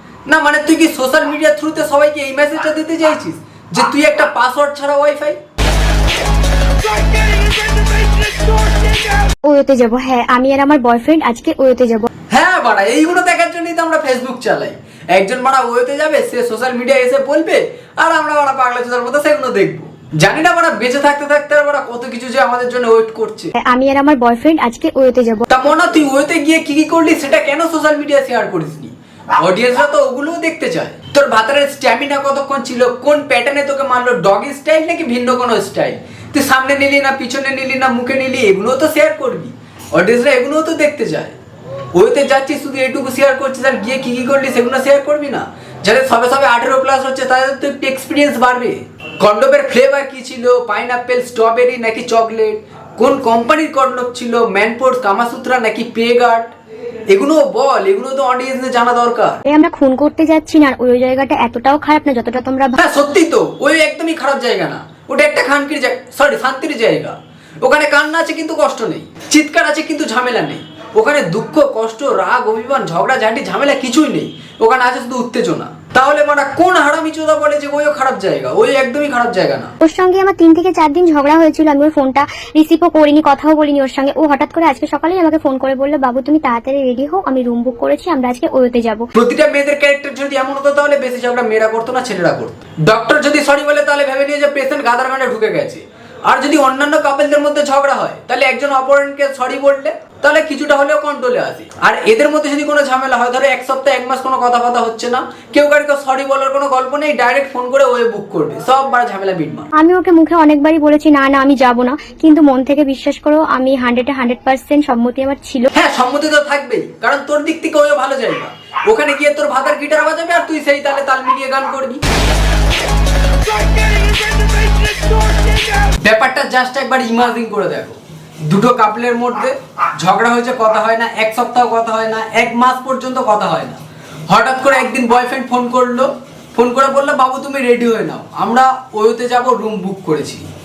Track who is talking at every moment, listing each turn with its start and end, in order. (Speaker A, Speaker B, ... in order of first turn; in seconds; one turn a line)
Speaker A: 0.3-5.4
Speaker A: 6.8-9.3
Speaker B: 9.4-12.1
Speaker A: 12.3-23.5
Speaker B: 23.6-25.5
Speaker A: 25.5-41.4
Speaker A: 42.0-56.5
Speaker A: 57.1-59.4
Speaker B: 59.5-62.8
Speaker A: 62.8-79.7
Speaker B: 79.8-89.1
Speaker A: 89.1-109.7
Speaker B: 109.7-115.7
Speaker A: 115.7-122.0
Speaker A: 123.6-140.4